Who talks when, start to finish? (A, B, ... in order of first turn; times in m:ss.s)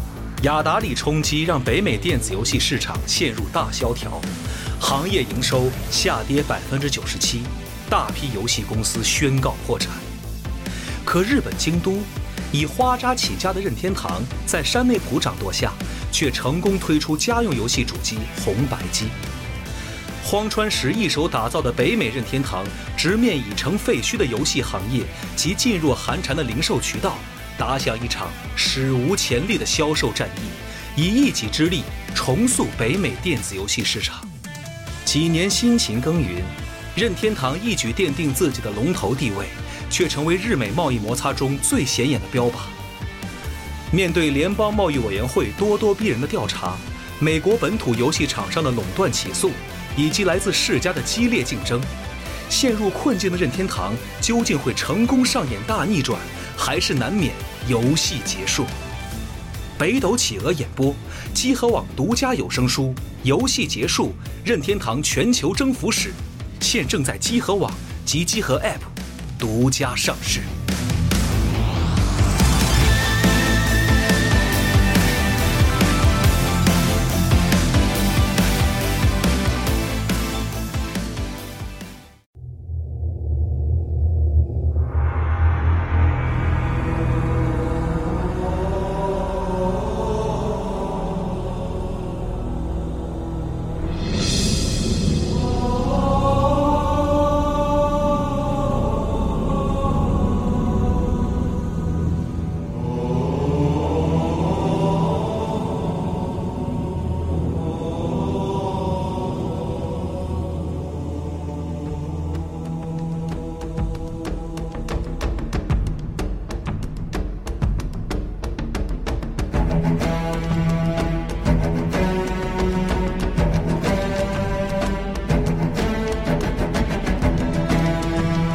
0:00.4-0:10.1 A
0:11.0-0:19.2 A
0:20.2-0:34.3 A
0:35.0-0:42.8 A
0:43.9-0:51.9 A
0:52.5-0:58.8 A
0:59.8-1:10.5 A